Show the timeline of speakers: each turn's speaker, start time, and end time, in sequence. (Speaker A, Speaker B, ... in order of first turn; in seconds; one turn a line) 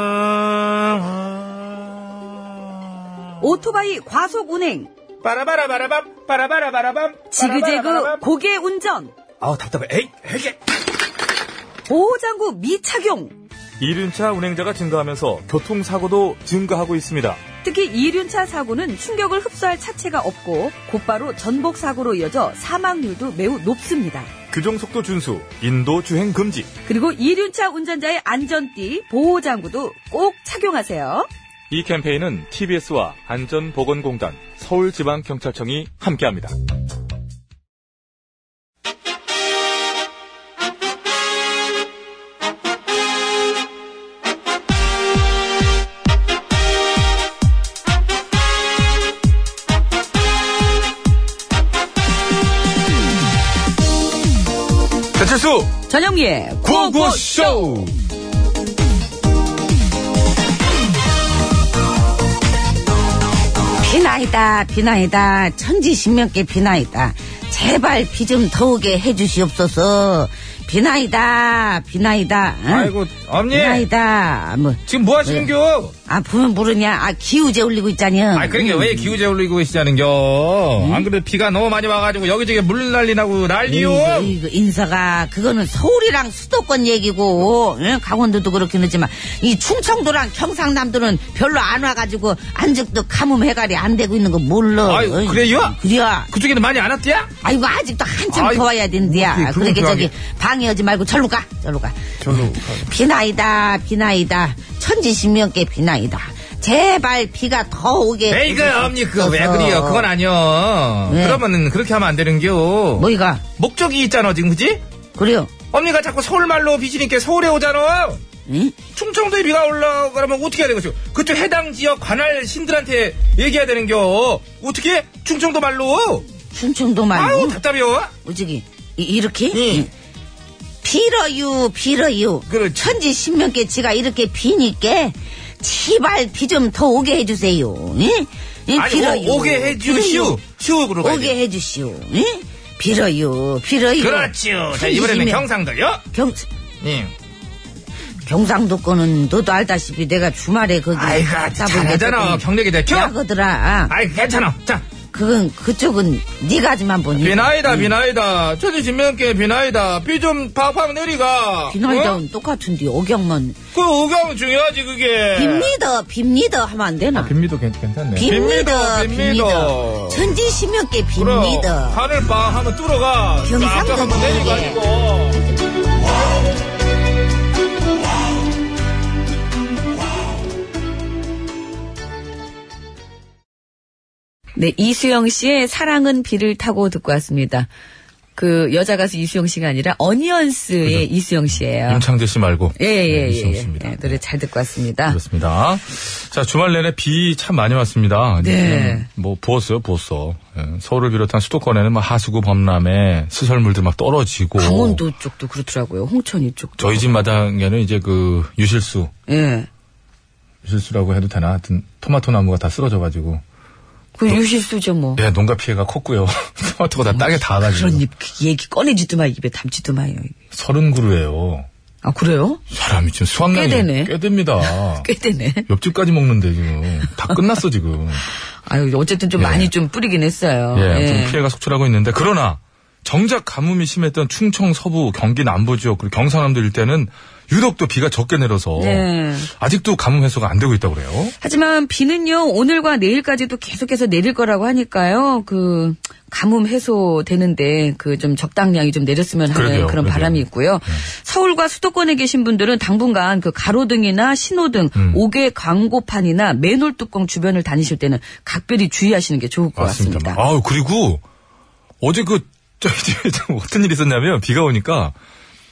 Speaker A: 3.4-4.9
Speaker B: 5.2-8.2
Speaker A: 7.3-9.1
Speaker C: 9.4-10.5
Speaker A: 11.9-13.3
Speaker C: 13.8-17.4
Speaker A: 17.6-24.3
Speaker C: 24.5-26.7
Speaker A: 26.9-31.3
Speaker C: 31.7-36.5
Speaker C: 55.2-55.7
Speaker A: 55.9-57.7
Speaker C: 56.6-58.0
Speaker D: 63.8-73.0
Speaker B: 72.7-73.9
Speaker D: 73.5-75.5
Speaker B: 74.9-76.0
Speaker D: 76.1-79.2
Speaker B: 78.3-84.4
Speaker D: 80.8-81.1
Speaker D: 83.7-96.3
Speaker B: 94.8-95.8
Speaker B: 96.3-97.3
Speaker D: 97.4-110.1
Speaker B: 98.3-100.1
Speaker C: 102.3-102.6
Speaker B: 108.3-114.8
Speaker D: 111.1-111.4
Speaker D: 113.0-113.5
Speaker D: 115.2-115.6
Speaker B: 115.7-118.2
Speaker D: 118.5-118.8
Speaker B: 118.9-126.2
Speaker D: 126.5-127.6
Speaker B: 127.1-128.1
Speaker D: 128.2-129.9
Speaker B: 129.5-129.9
Speaker D: 130.8-140.4
Speaker B: 132.5-132.9
Speaker B: 138.7-141.3
Speaker D: 141.0-145.4
Speaker B: 144.0-146.0
Speaker D: 146.1-146.5
Speaker B: 146.8-147.1
Speaker D: 148.2-153.9
Speaker B: 150.9-153.1
Speaker B: 153.9-154.9
Speaker D: 155.1-157.9
Speaker B: 157.2-162.2
Speaker D: 161.7-163.6
Speaker B: 163.7-165.8
Speaker D: 165.3-167.3
Speaker C: 167.1-168.4
Speaker D: 168.2-172.0
Speaker B: 168.2-170.3
Speaker B: 171.2-175.4
Speaker D: 173.4-174.8
Speaker A: 184.6-187.7
Speaker A: 188.4-192.1
Speaker C: 190.8-194.2
Speaker A: 192.8-195.2
Speaker C: 195.1-205.0
Speaker A: 198.4-199.1
Speaker A: 204.6-207.0
Speaker C: 206.8-209.1
Speaker A: 209.3-209.7
Speaker C: 210.6-213.4
Speaker A: 214.2-215.2
Speaker C: 215.2-218.1
Speaker A: 217.1-220.3
Speaker C: 220.5-221.7
Speaker A: 222.0-222.6
Speaker C: 222.7-225.1
Speaker A: 223.5-225.7
Speaker C: 225.7-228.2
Speaker A: 228.7-231.4
Speaker C: 229.4-229.7
Speaker C: 230.7-241.3
Speaker A: 238.8-239.5
Speaker A: 241.4-260.4
Speaker C: 249.5-251.0
Speaker C: 255.0-255.2
Speaker C: 259.8-261.2
Speaker C: 262.0-265.1